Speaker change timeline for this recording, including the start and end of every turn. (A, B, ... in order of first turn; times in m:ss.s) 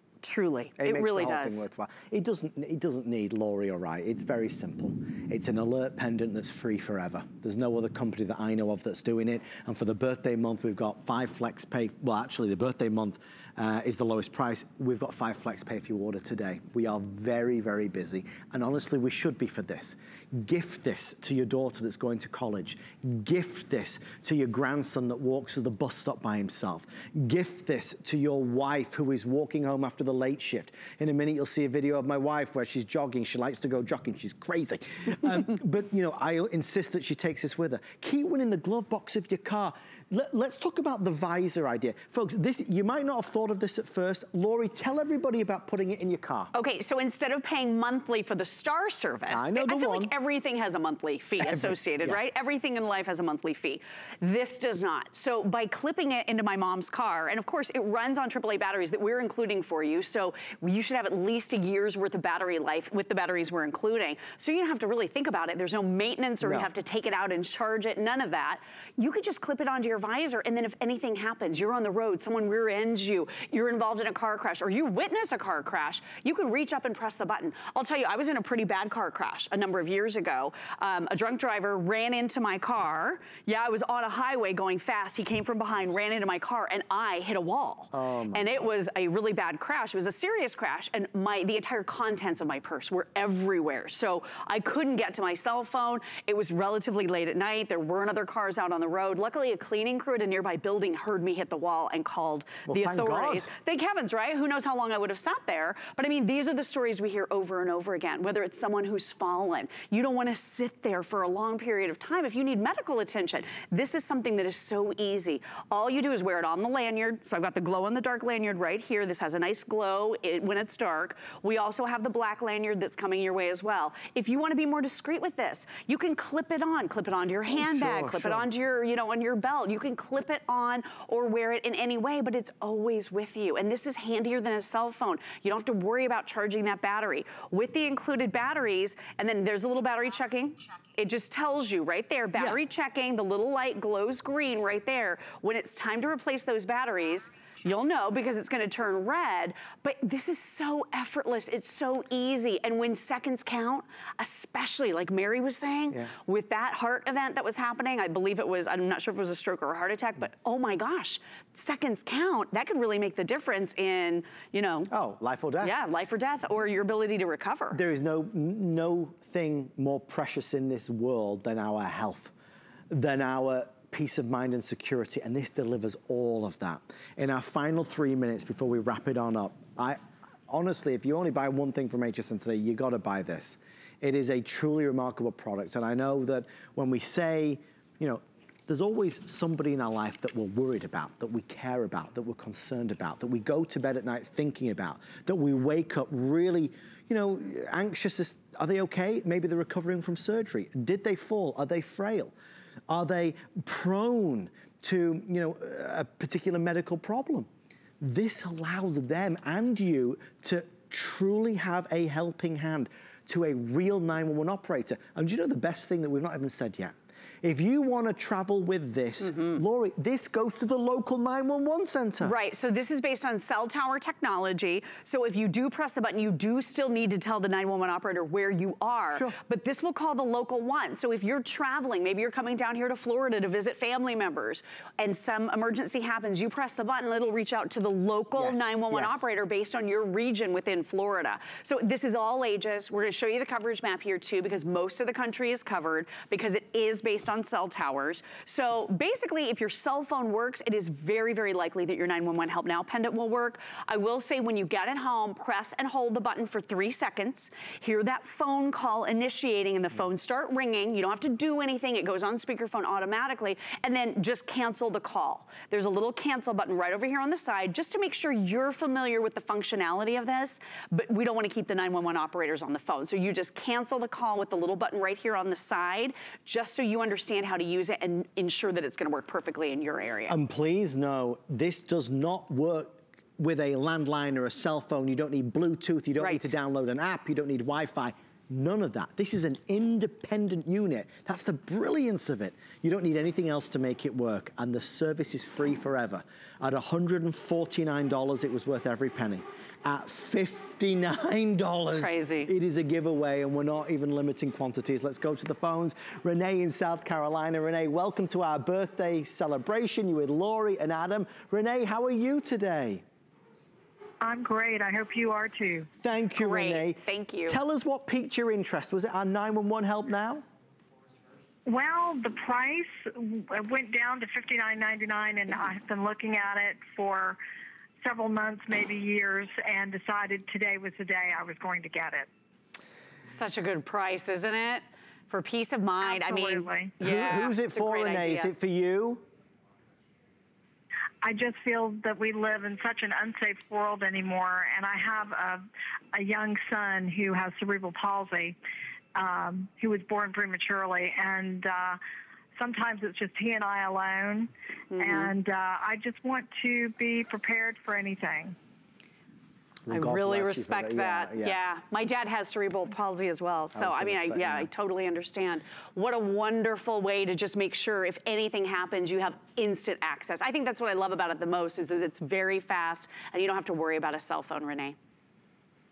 0:00.2-0:01.7 A
0:00.8-0:46.5 B
0:46.5-2:44.9 A
0:49.3-0:50.1 B
0:51.4-0:52.2 B
1:06.4-1:06.7 B
1:27.9-1:28.7 B
1:42.7-1:43.5 B
2:07.5-2:08.5 B
2:22.4-2:22.6 B
2:44.9-2:45.8 B
2:45.6-2:47.8 A
2:47.7-2:52.3 B
2:52.9-3:22.3 B
3:22.9-3:27.5 B
3:28.0-3:42.4 B
3:39.2-3:39.6 A
3:42.2-4:40.4 A
3:49.1-3:49.4 B
3:58.4-3:59.2 B
4:40.3-5:13.0 B
4:46.2-4:46.5 A
5:01.9-5:02.5 A
5:14.2-5:15.9 C
5:16.0-5:20.4 B
5:16.4-5:17.6 A
5:21.7-5:27.4 C
5:28.0-5:32.3 C
5:33.3-5:38.5 A
5:36.0-5:37.0 C
5:37.0-5:39.2 B
5:41.2-5:48.6 C
5:49.2-5:52.0 C
5:52.6-5:58.6 C
5:54.9-5:55.3 A
5:59.9-6:01.6 B
5:59.9-6:15.0 A
6:03.7-6:04.7 B